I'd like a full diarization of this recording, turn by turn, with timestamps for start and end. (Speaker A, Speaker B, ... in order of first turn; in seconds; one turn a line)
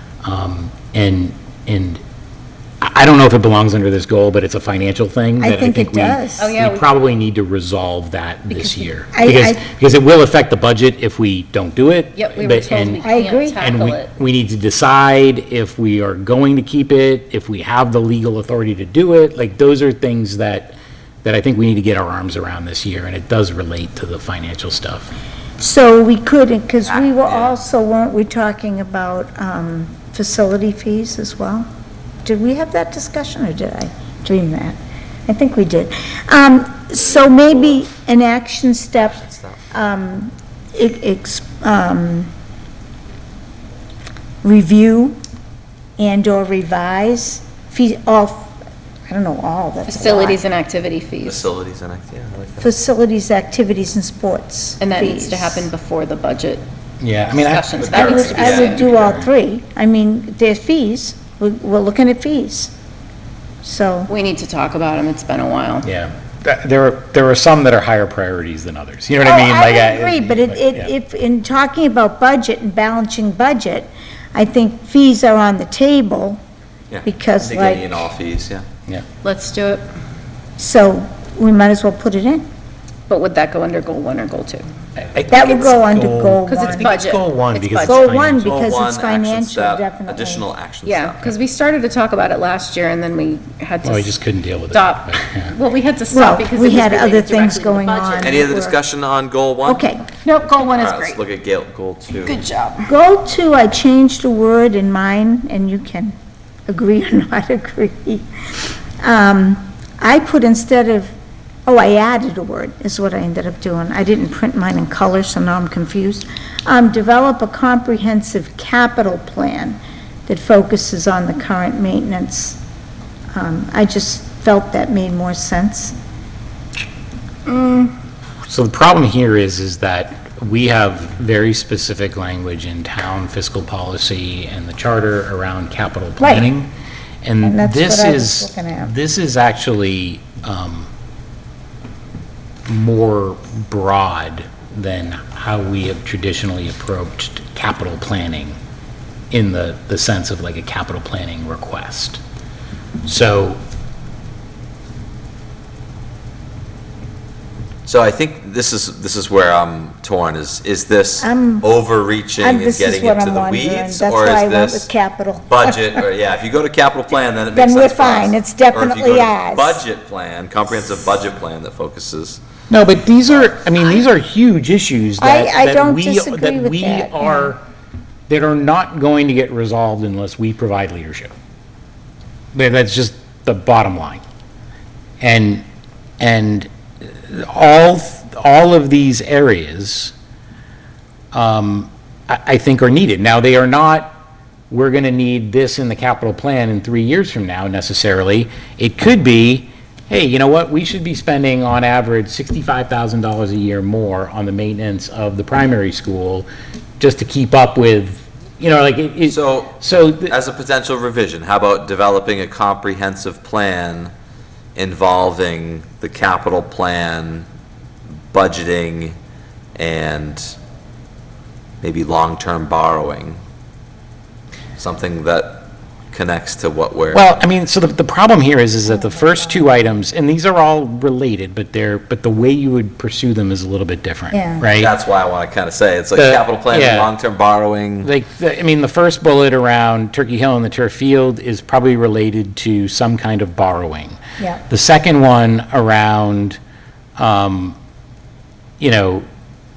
Speaker A: 0.2-2.0
Speaker A: 2.8-13.0
Speaker B: 5.4-6.5
Speaker C: 6.4-6.9
Speaker B: 8.5-9.7
Speaker C: 12.1-14.1
Speaker B: 13.0-13.6
Speaker A: 13.6-25.1
Speaker B: 25.6-31.7
Speaker D: 26.9-27.5
Speaker B: 32.2-39.2
Speaker D: 39.0-39.7
Speaker B: 39.7-42.3
Speaker B: 44.4-45.2
Speaker B: 46.0-48.5
Speaker B: 49.1-50.4
Speaker C: 49.9-51.5
Speaker D: 51.2-52.7
Speaker B: 52.6-55.7
Speaker C: 54.8-56.6
Speaker A: 57.0-59.3
Speaker C: 57.3-58.8
Speaker D: 57.9-58.8
Speaker B: 57.9-62.7
Speaker B: 63.6-64.1
Speaker C: 64.1-65.9
Speaker A: 65.8-70.9
Speaker B: 69.2-76.4
Speaker D: 76.9-78.6
Speaker B: 77.0-78.1
Speaker C: 79.2-79.9
Speaker B: 80.6-82.4
Speaker C: 83.1-84.6
Speaker A: 85.0-88.5
Speaker B: 85.3-86.9
Speaker C: 86.5-88.2
Speaker B: 87.8-90.5
Speaker D: 88.4-91.2
Speaker C: 90.8-94.2
Speaker A: 93.8-95.5
Speaker C: 94.7-98.5
Speaker B: 96.1-98.8
Speaker D: 98.2-99.9
Speaker B: 99.6-100.0
Speaker C: 100.2-101.2
Speaker D: 100.7-102.4
Speaker C: 102.2-102.9
Speaker B: 102.9-106.1
Speaker B: 106.7-108.2
Speaker B: 109.0-111.1
Speaker B: 111.7-122.6
Speaker B: 123.3-126.0
Speaker C: 127.5-127.9
Speaker A: 128.5-136.7
Speaker B: 136.2-136.5
Speaker A: 137.2-140.9
Speaker B: 137.4-138.9
Speaker A: 142.7-148.6
Speaker A: 149.3-152.2
Speaker A: 153.0-153.6
Speaker D: 157.8-164.9
Speaker B: 161.2-161.7
Speaker B: 162.4-166.0
Speaker D: 165.5-172.4
Speaker B: 167.5-169.8
Speaker A: 172.7-177.6
Speaker B: 175.2-177.5
Speaker A: 178.3-181.3
Speaker A: 182.5-184.2
Speaker A: 185.2-185.6
Speaker A: 186.2-190.1
Speaker A: 191.3-194.2
Speaker A: 194.7-206.5
Speaker A: 207.0-210.3
Speaker D: 209.2-214.1
Speaker D: 214.8-217.5
Speaker D: 218.3-219.2
Speaker D: 219.8-220.5
Speaker D: 221.8-223.4
Speaker D: 224.8-227.3
Speaker A: 227.1-234.9
Speaker B: 228.8-230.0
Speaker B: 234.3-234.7
Speaker D: 234.8-238.1
Speaker A: 236.2-237.1
Speaker A: 238.0-246.6
Speaker A: 247.2-247.8
Speaker A: 248.8-249.2